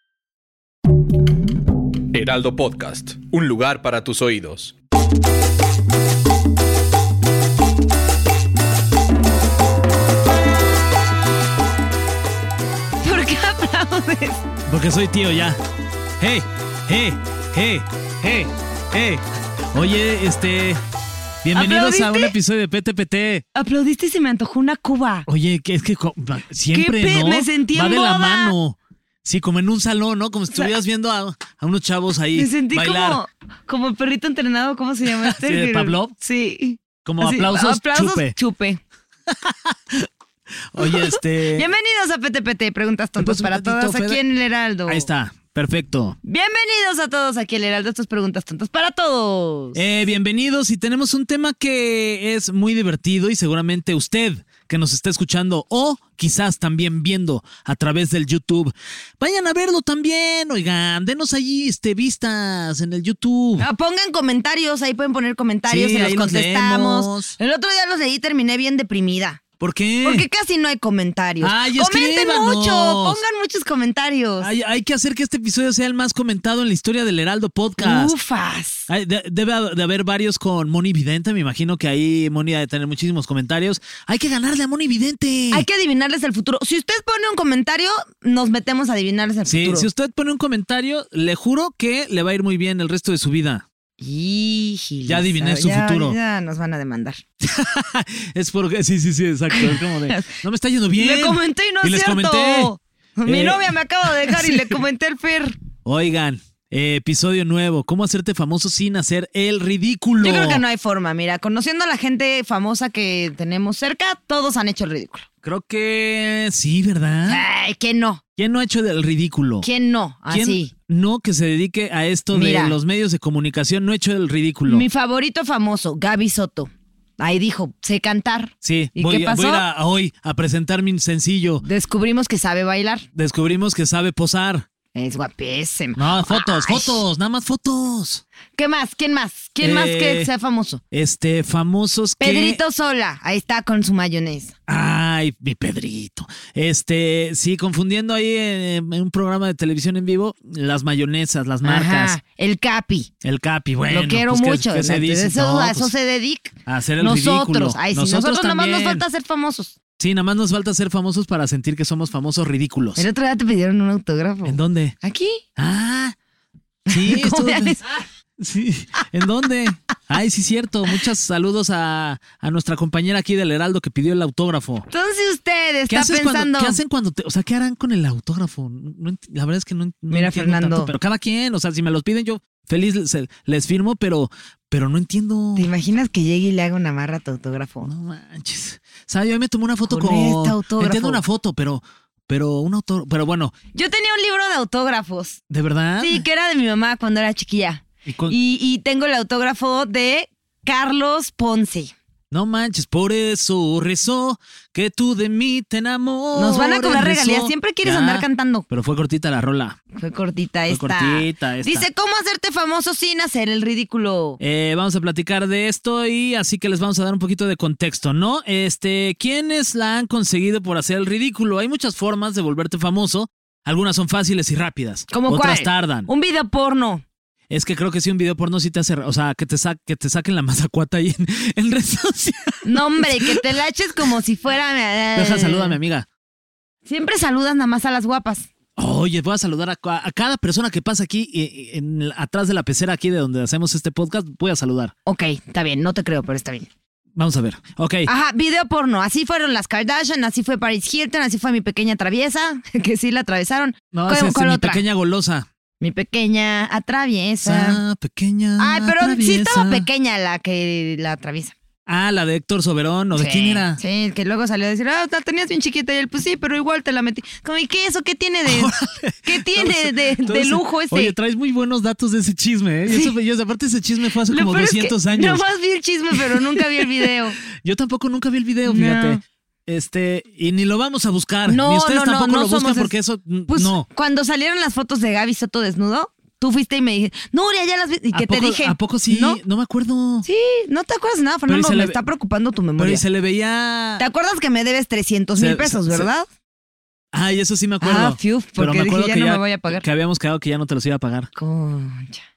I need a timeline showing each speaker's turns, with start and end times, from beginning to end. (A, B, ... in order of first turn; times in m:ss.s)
0:02.1-0:04.7 A
0:13.0-0:14.4 B
0:14.7-0:15.6 C
0:16.2-0:20.8 C
0:21.4-0:23.4 C
0:21.5-0:22.3 B
0:23.5-0:25.3 B
0:25.3-0:33.2 C
0:26.7-0:28.6 B
0:32.3-0:38.8 B
0:35.0-0:36.1 C
0:37.0-0:38.3 C
0:39.3-0:40.1 C
0:40.7-0:41.7 C
0:40.8-0:45.1 B
0:43.2-0:44.2 C
0:44.9-0:46.2 C
0:46.2-0:49.8 B
0:49.7-1:03.7 C
1:03.6-1:09.4 B
1:05.7-1:07.4 C
1:09.6-1:10.2 C
1:10.0-1:14.5 B
1:11.4-1:13.2 C
1:14.4-1:18.1 C
1:17.8-1:18.9 B
1:18.9-1:25.7 C
1:25.5-1:29.9 B
1:29.4-1:33.6 C
1:34.0-1:37.2 B
1:35.0-1:36.2 C
1:37.4-1:42.7 C
1:39.5-1:40.4 B
1:41.0-1:45.6 B
1:43.2-1:44.8 C
1:45.8-1:50.6 C
1:50.2-1:55.2 B
1:55.4-1:57.4 C
1:57.3-1:58.2 B
1:58.4-1:59.7 C
1:59.6-2:00.7 B
2:00.3-2:04.8 C
2:02.3-2:02.8 B
2:04.7-2:09.6 B
2:08.6-2:11.6 C
2:11.6-2:13.0 B
2:13.1-2:14.6 C
2:14.9-2:17.0 B
2:15.9-2:18.2 C
2:18.6-2:20.8 B
2:19.6-2:20.3 C
2:20.9-2:22.6 C
2:22.2-2:24.5 B
2:24.7-2:32.2 C
2:31.6-2:33.1 B
2:33.2-2:35.9 C
2:33.9-2:39.7 B
2:36.6-2:39.0 C
2:40.0-2:43.0 C
2:43.0-2:45.4 B
2:44.4-2:45.0 C
2:45.6-2:46.2 C
2:46.9-2:47.8 B
2:46.9-2:47.8 C
2:48.4-2:54.9 C
2:54.9-2:56.8 B
2:55.9-3:05.7 C
3:00.1-3:00.9 B
3:05.6-3:07.9 B
3:07.8-3:13.5 C
3:09.8-3:11.2 B
3:13.7-3:15.4 B
3:15.5-3:16.2 C
3:16.0-3:21.9 B
3:18.0-3:18.4 C
3:22.3-3:29.8 C
3:26.3-3:28.6 B
3:29.9-3:34.4 B
3:30.7-3:31.9 C
3:34.4-3:46.1 C
3:45.1-3:47.0 B
3:47.5-3:53.4 C
3:52.6-3:55.8 B
3:55.1-3:56.1 C
3:56.8-3:58.5 B
3:58.8-4:04.9 C
4:05.0-4:06.7 B
4:07.2-4:08.1 C
4:08.0-4:14.8 B
4:13.9-4:15.5 C
4:15.8-4:17.8 B
4:17.4-4:19.9 C
4:18.6-4:21.5 B
4:21.8-4:23.8 C
4:23.1-4:28.7 B
4:28.4-4:35.5 C
4:29.2-4:31.1 B
4:32.9-4:33.1 B
4:34.3-4:37.4 B
4:36.1-4:43.8 C
4:38.6-4:39.2 B
4:41.5-4:42.9 B
4:43.5-4:49.4 B
4:48.1-4:50.2 C
4:50.2-4:53.0 B
4:51.5-4:52.0 C
4:52.8-4:54.0 C
4:54.0-4:56.3 B
4:55.4-4:56.1 C
4:57.1-5:01.3 C
4:57.8-4:59.8 B
5:01.3-5:02.2 B